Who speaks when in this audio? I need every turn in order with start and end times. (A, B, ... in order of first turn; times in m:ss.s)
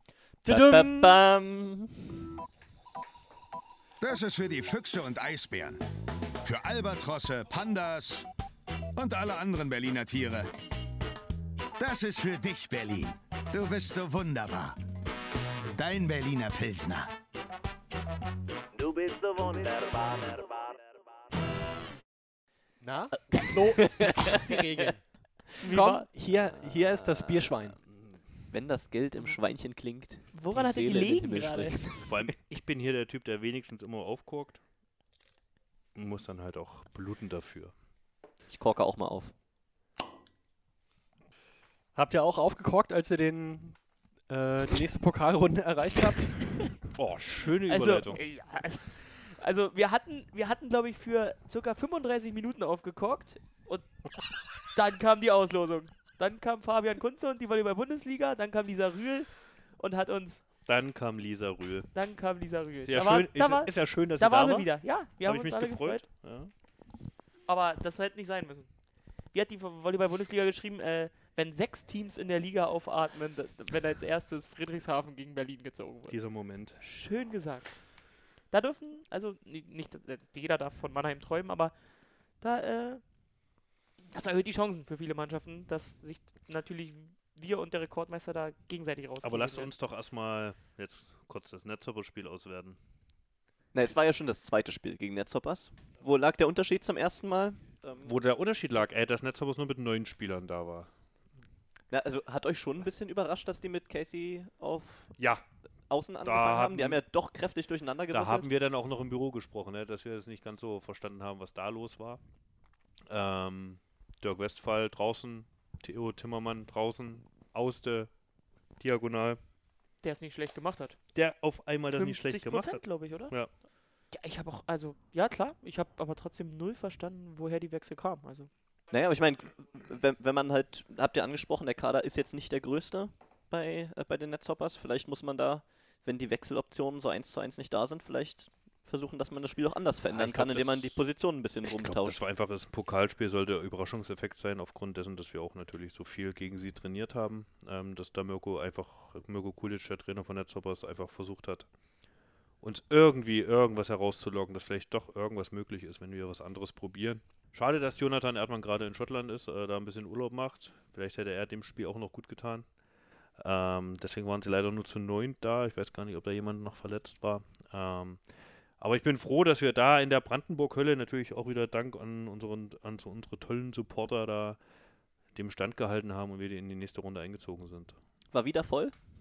0:00.4-0:01.2 A
0:00.4-0:02.2 B
0:04.0-0:05.8 C
0:06.4-0:08.2 C
0:09.0-0:10.5 C
0:11.8-0:14.7 C
0:15.7-0:17.1 C
0:18.7-0:21.1 D
0:22.8-0:24.9 E
0:23.3-0:25.0 B
0:25.6-0:26.1 A
0:25.6-0:27.8 E
0:26.3-0:27.6 B
0:27.8-0:28.3 F
0:28.5-0:32.1 B
0:30.3-0:32.0 A
0:31.9-0:34.6 F
0:35.9-0:37.7 F
0:38.5-0:39.3 B
0:41.9-0:46.7 E
0:46.9-0:48.2 F
0:47.7-1:00.5 A
1:00.6-1:01.9 F
1:01.9-1:06.0 A
1:02.8-1:06.5 F
1:07.4-1:23.5 A
1:16.1-1:16.8 F
1:24.1-1:29.7 A
1:29.2-1:32.8 F
1:33.7-1:38.1 B
1:38.0-1:40.9 F
1:41.9-1:45.2 B
1:45.2-1:45.4 F
1:45.9-1:48.5 B
1:46.2-1:47.0 F
1:48.1-1:52.2 F
1:53.1-1:58.1 F
1:58.8-1:59.4 F
2:00.0-2:01.0 A
2:01.1-2:03.5 F
2:01.9-2:08.5 A
2:08.9-2:22.2 B
2:20.1-2:21.0 F
2:21.6-2:31.7 F
2:32.6-2:42.8 F
2:43.3-2:54.6 F
2:55.3-2:58.0 F
2:58.3-2:58.9 B